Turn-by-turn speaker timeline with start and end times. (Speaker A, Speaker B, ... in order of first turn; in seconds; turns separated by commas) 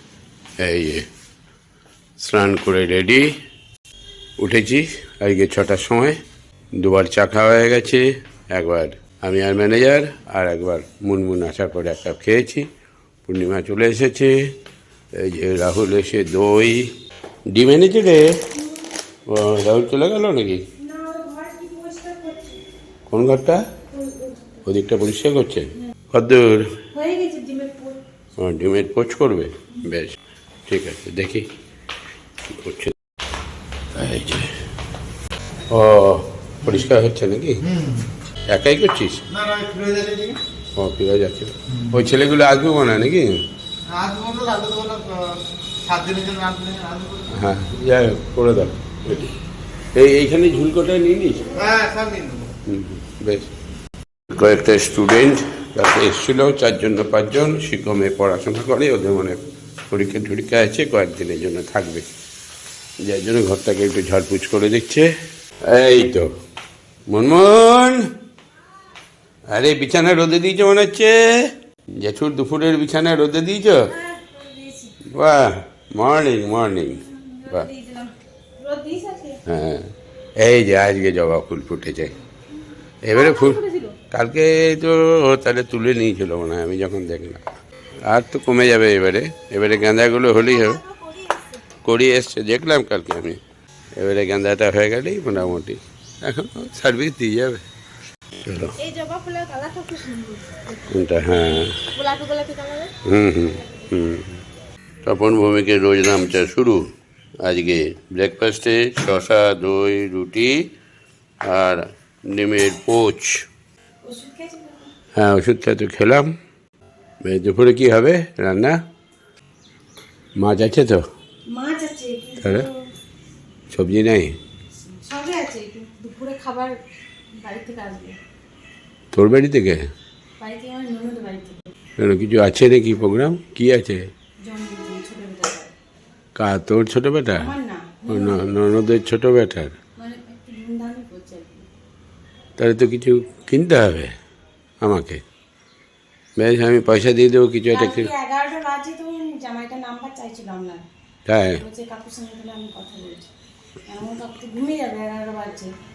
Speaker A: 0.6-1.0, Speaker A: 2.2-3.3, Speaker A: 4.4-6.2, Speaker A: 6.8-12.7, Speaker A: 13.2-14.5, Speaker A: 15.1-16.9, Speaker A: 17.5-18.4, Speaker A: 19.3-20.6, Speaker B: 20.8-22.6, Speaker A: 23.1-23.6, Speaker B: 23.9-24.5, Speaker A: 24.6-26.8, Speaker B: 26.9-28.0, Speaker A: 28.4-31.5, Speaker A: 32.5-32.9, Speaker A: 33.9-34.6, Speaker A: 35.7-37.6, Speaker C: 37.6-38.1, Speaker A: 38.5-39.2, Speaker C: 39.3-40.4, Speaker A: 40.8-43.4, Speaker C: 43.9-47.3, Speaker A: 47.3-49.3, Speaker A: 49.9-51.5, Speaker C: 51.5-52.5, Speaker A: 52.6-53.5, Speaker A: 54.3-62.0, Speaker A: 63.0-65.1, Speaker A: 65.7-66.3, Speaker A: 67.1-68.0, Speaker A: 69.5-71.5, Speaker A: 72.0-73.9, Speaker B: 73.9-75.0, Speaker A: 75.1-77.7, Speaker B: 77.1-79.4, Speaker A: 79.5-82.1, Speaker A: 83.0-87.4, Speaker B: 83.1-84.0, Speaker A: 88.1-90.8, Speaker B: 90.3-91.6, Speaker A: 91.8-93.4, Speaker A: 94.0-97.6, Speaker A: 98.4-98.8, Speaker B: 98.8-102.9, Speaker A: 100.9-101.8, Speaker A: 103.0-104.4, Speaker A: 105.0-106.9, Speaker A: 107.4-110.6, Speaker A: 111.4-113.4, Speaker B: 114.0-114.9, Speaker A: 115.2-116.3, Speaker A: 117.2-118.8, Speaker A: 120.4-121.0, Speaker B: 121.5-122.9, Speaker A: 122.4-122.7, Speaker A: 123.7-124.4, Speaker B: 124.8-126.7, Speaker B: 127.3-128.2, Speaker A: 129.1-129.8, Speaker B: 130.4-131.7, Speaker A: 132.0-134.1, Speaker B: 134.4-135.7, Speaker A: 136.3-137.5, Speaker B: 137.3-138.6, Speaker A: 138.1-139.8, Speaker B: 140.0-141.7, Speaker A: 142.6-144.1, Speaker A: 144.8-145.2, Speaker A: 146.4-148.1, Speaker B: 147.7-150.9, Speaker A: 151.2-151.6, Speaker B: 151.5-153.3, Speaker B: 153.9-155.7